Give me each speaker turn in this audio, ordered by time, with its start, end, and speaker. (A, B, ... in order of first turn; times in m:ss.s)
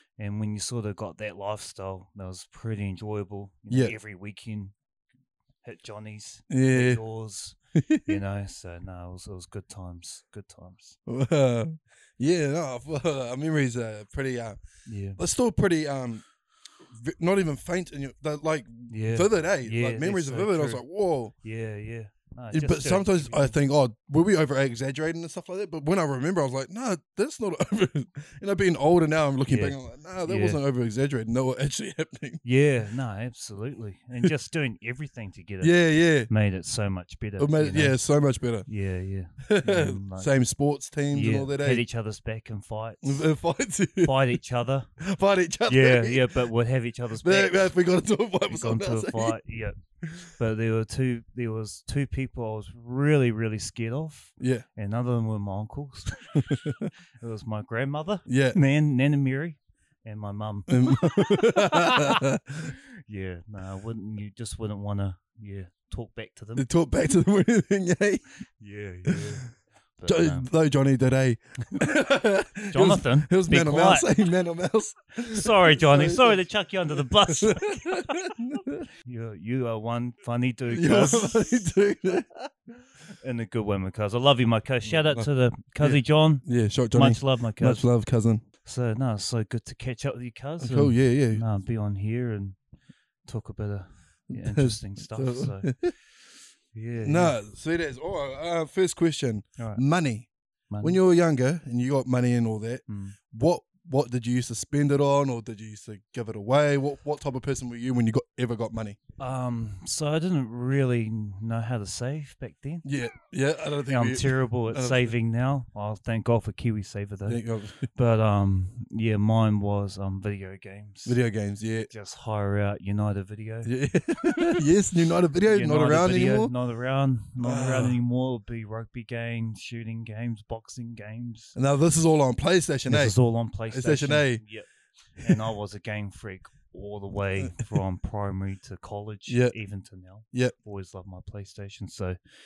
0:00.2-0:04.7 A
0:05.6-0:11.0 A
0:06.5-0:07.0 B
0:07.7-0:08.1 B
0:11.1-0:14.6 B
0:14.8-0:15.2 A
0:15.2-0:16.2 B
0:16.9-0:21.3 B
0:18.9-0:20.8 A
0:21.4-0:23.5 A
0:22.5-0:32.4 B
0:29.5-0:30.6 A
0:32.4-0:38.0 A
0:35.6-0:36.3 B
0:37.4-0:38.6 B
0:38.6-0:40.3 A
0:39.4-0:41.8 B
0:41.1-0:43.2 A
0:43.0-0:44.1 B
0:44.0-0:44.9 A
0:45.0-0:46.3 B
0:45.7-0:47.7 A
0:47.2-0:49.4 B
0:48.5-0:49.7 A
0:50.0-0:50.3 B
0:50.4-1:06.7 A
0:54.4-0:54.6 B
0:56.4-0:56.9 B
0:58.3-0:58.6 B
1:00.7-1:02.7 B
1:06.6-1:08.2 B
1:08.6-1:10.5 A
1:09.0-1:09.4 B
1:10.0-1:16.4 B
1:12.7-1:14.1 A
1:15.3-1:18.4 A
1:17.0-1:18.8 B
1:19.0-1:21.6 A
1:20.7-1:22.5 B
1:23.2-1:27.8 A
1:24.9-1:25.2 B
1:25.8-1:28.4 B
1:28.6-1:32.6 A
1:30.6-1:31.4 B
1:33.2-1:35.7 A
1:34.3-1:35.9 B
1:36.7-1:37.4 A
1:37.0-1:40.3 B
1:39.6-1:39.8 A
1:40.7-1:41.0 A
1:40.8-1:49.0 B
1:42.9-1:43.2 A
1:49.2-1:52.8 A
1:52.8-1:55.1 B
1:53.9-1:57.4 A
1:57.3-1:57.9 B
1:57.9-2:01.2 A
2:01.0-2:01.9 B
2:01.9-2:03.7 A
2:03.6-2:06.5 B
2:05.4-2:11.6 A
2:07.4-2:08.0 B
2:11.6-2:13.2 B
2:12.9-2:22.2 A
2:13.7-2:14.4 B
2:19.3-2:19.5 B